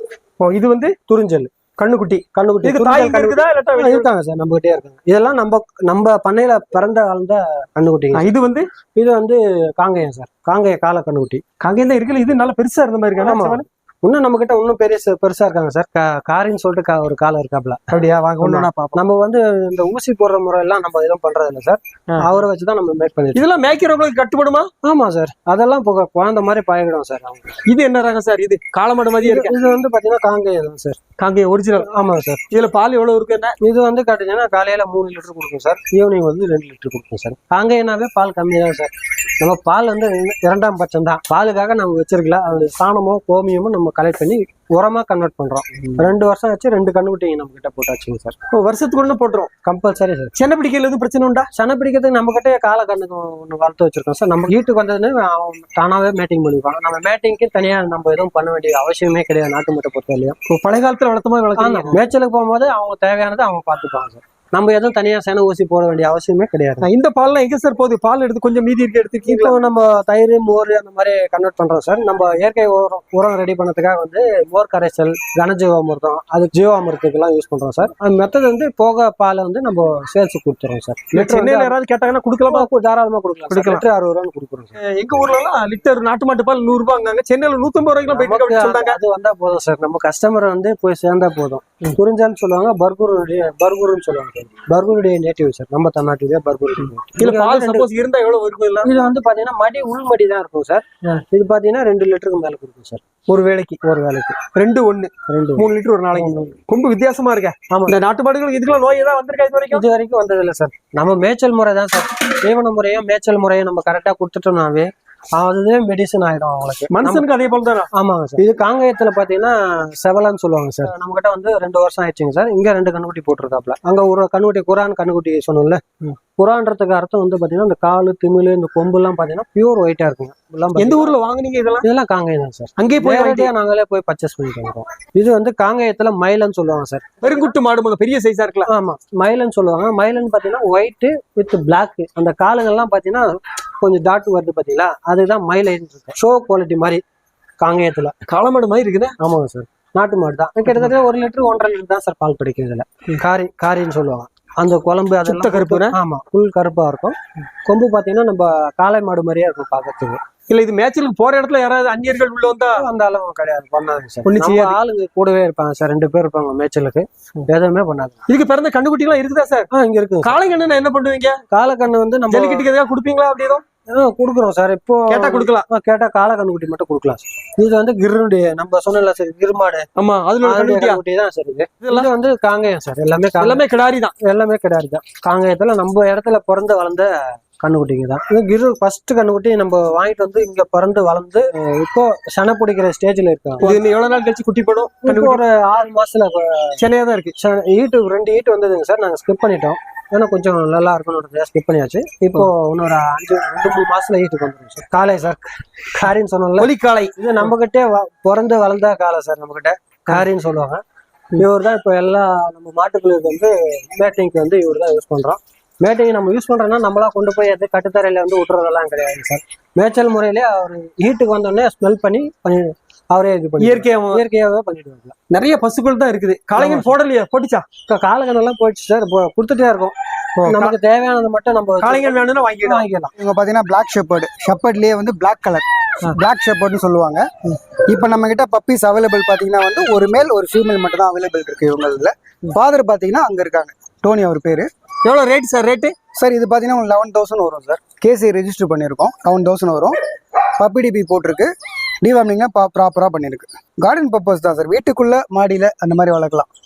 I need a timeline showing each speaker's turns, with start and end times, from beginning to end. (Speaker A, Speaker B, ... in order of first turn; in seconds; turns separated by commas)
Speaker A: 0.4-0.9, Speaker B: 1.1-1.5, Speaker A: 1.8-4.1, Speaker B: 2.4-8.3, Speaker A: 8.2-8.7, Speaker B: 8.9-11.4, Speaker A: 11.6-13.7, Speaker B: 13.2-17.8, Speaker A: 17.9-19.0, Speaker B: 18.4-23.4, Speaker A: 23.4-24.7, Speaker B: 24.8-27.5, Speaker A: 27.6-29.5, Speaker B: 29.2-31.0, Speaker A: 31.2-31.9, Speaker B: 31.8-32.4, Speaker A: 32.5-33.6, Speaker B: 33.6-48.4, Speaker A: 48.5-49.5, Speaker B: 49.6-50.3, Speaker A: 50.4-51.5, Speaker B: 51.5-60.4, Speaker A: 60.5-62.0, Speaker B: 61.6-66.9, Speaker A: 66.8-69.6, Speaker B: 69.3-81.8, Speaker A: 81.1-82.7, Speaker B: 82.5-84.8, Speaker A: 83.5-83.8, Speaker A: 84.8-89.0, Speaker B: 88.1-97.9, Speaker A: 97.2-98.9, Speaker B: 98.8-103.0, Speaker A: 103.3-103.8, Speaker B: 103.8-104.4, Speaker A: 104.5-109.8, Speaker B: 105.3-106.5, Speaker B: 107.7-108.0, Speaker B: 109.7-117.2, Speaker A: 116.9-117.9, Speaker B: 117.9-131.1, Speaker A: 130.8-131.8, Speaker B: 131.8-137.5, Speaker A: 132.8-133.5, Speaker A: 137.2-138.7, Speaker B: 138.7-147.0, Speaker B: 147.6-148.1, Speaker A: 148.2-149.2, Speaker B: 149.2-160.2, Speaker A: 155.2-156.0, Speaker A: 160.5-162.8, Speaker B: 162.7-168.2, Speaker A: 164.2-164.8, Speaker A: 168.3-169.7, Speaker B: 169.7-170.4, Speaker A: 170.2-171.4, Speaker B: 171.5-172.7, Speaker A: 172.3-173.6, Speaker B: 173.9-179.9, Speaker A: 175.1-175.7, Speaker A: 180.0-181.0, Speaker B: 180.4-183.6, Speaker A: 181.8-182.1, Speaker A: 183.4-184.1, Speaker B: 184.2-193.8, Speaker A: 193.6-195.4, Speaker B: 195.0-196.8, Speaker A: 196.8-197.3, Speaker B: 197.4-210.8, Speaker A: 206.6-207.1, Speaker B: 211.4-225.1, Speaker A: 223.6-224.2, Speaker A: 225.3-227.7, Speaker B: 226.6-226.9, Speaker B: 227.9-233.1, Speaker A: 230.4-230.8, Speaker A: 231.8-232.9, Speaker C: 233.2-237.2, Speaker C: 237.9-244.7, Speaker A: 245.1-245.9, Speaker C: 246.2-250.0, Speaker C: 250.6-251.5, Speaker C: 252.0-256.5